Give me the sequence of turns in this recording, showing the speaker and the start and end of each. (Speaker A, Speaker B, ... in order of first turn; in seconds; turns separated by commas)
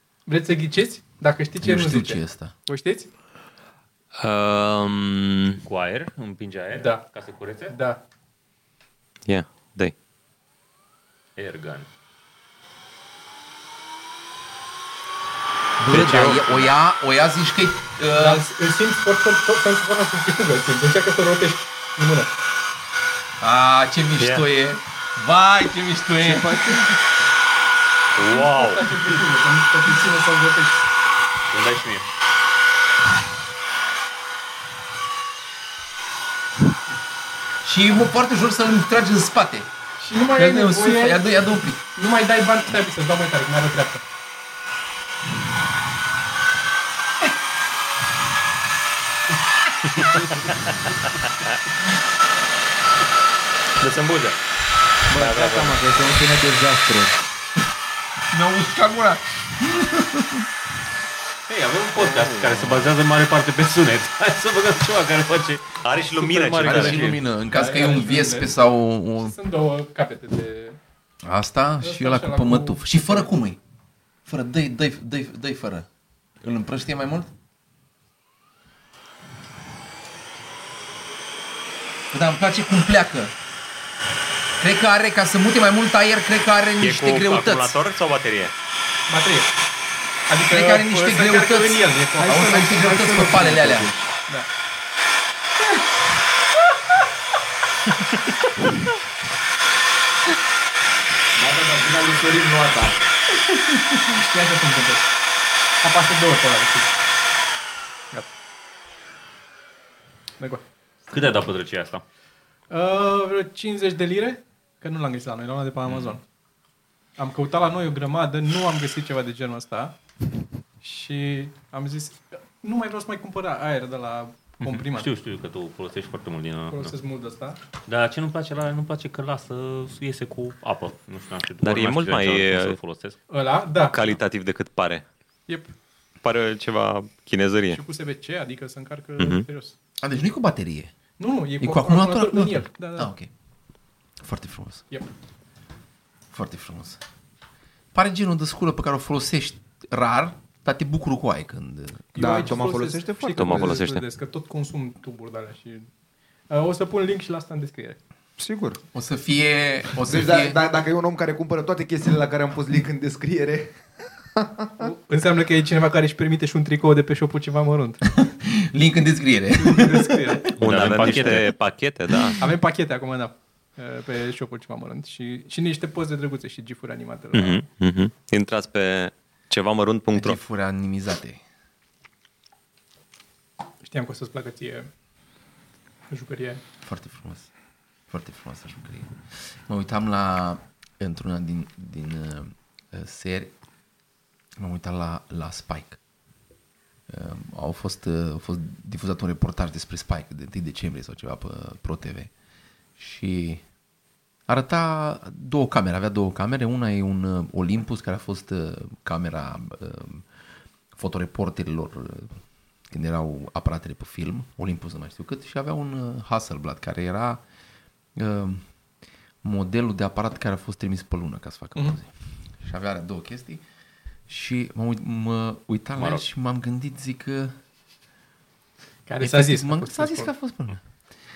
Speaker A: 0.3-3.1, Speaker B: 1.6-2.5, Speaker C: 4.2-5.6, Speaker D: 5.6-7.8, Speaker A: 6.7-7.0, Speaker A: 7.7-8.0, Speaker C: 9.3-9.9, Speaker D: 11.3-11.9, Speaker B: 15.8-18.4, Speaker C: 15.9-16.4, Speaker A: 18.1-22.3, Speaker B: 23.4-26.9, Speaker E: 26.2-26.9, Speaker D: 28.1-28.9, Speaker A: 28.3-30.8, Speaker D: 31.5-32.0, Speaker B: 37.6-39.7, Speaker A: 40.0-41.2, Speaker B: 40.3-41.8, Speaker A: 41.9-44.0, Speaker D: 50.0-50.4, Speaker D: 53.8-54.4, Speaker E: 55.1-57.1, Speaker D: 55.1-55.8, Speaker B: 58.3-60.5, Speaker D: 61.5-67.2, Speaker C: 65.8-67.1, Speaker B: 66.6-69.3, Speaker A: 67.5-68.5, Speaker A: 69.2-70.8, Speaker B: 71.2-73.6, Speaker A: 71.8-73.3, Speaker B: 74.2-75.9, Speaker B: 76.4-77.3, Speaker B: 82.1-83.3, Speaker B: 84.6-87.8, Speaker C: 86.8-88.5, Speaker A: 89.1-89.5, Speaker A: 90.3-92.6, Speaker B: 90.5-93.9, Speaker E: 92.2-94.0, Speaker E: 101.3-103.0, Speaker A: 104.1-105.1, Speaker A: 105.8-106.9, Speaker D: 111.1-112.0, Speaker A: 112.7-116.2, Speaker A: 117.2-119.9, Speaker A: 120.8-125.1, Speaker D: 124.6-126.9, Speaker A: 126.7-127.6, Speaker D: 127.9-133.2, Speaker C: 131.6-132.8, Speaker A: 133.3-134.1, Speaker C: 133.9-135.0, Speaker A: 135.5-135.7, Speaker C: 136.2-137.8, Speaker A: 137.7-139.7, Speaker C: 139.2-139.4, Speaker B: 140.0-140.9, Speaker A: 141.2-143.1, Speaker B: 141.6-143.3, Speaker B: 144.2-144.8, Speaker B: 146.3-147.0, Speaker B: 147.9-152.1, Speaker A: 152.1-155.9, Speaker E: 152.2-153.8, Speaker C: 153.3-154.0, Speaker A: 156.5-158.0, Speaker E: 158.4-158.8, Speaker B: 158.9-160.6, Speaker E: 160.0-163.8, Speaker E: 164.3-164.9, Speaker A: 164.8-168.0, Speaker B: 168.0-171.3, Speaker A: 169.5-170.5, Speaker C: 170.6-172.4, Speaker D: 170.6-171.5, Speaker A: 172.4-177.6, Speaker C: 177.3-180.4, Speaker B: 180.1-181.4, Speaker A: 183.8-184.9, Speaker A: 186.1-186.6, Speaker B: 186.8-187.5, Speaker B: 188.1-189.1, Speaker B: 189.7-193.5, Speaker B: 194.6-196.0, Speaker B: 197.1-202.3, Speaker B: 203.0-203.6, Speaker B: 204.5-210.2, Speaker B: 210.9-212.4, Speaker B: 212.9-217.4, Speaker B: 218.2-218.6, Speaker B: 219.4-222.1, Speaker B: 222.6-223.6, Speaker B: 224.3-227.5, Speaker D: 225.9-226.2, Speaker A: 229.1-230.3, Speaker B: 229.2-230.8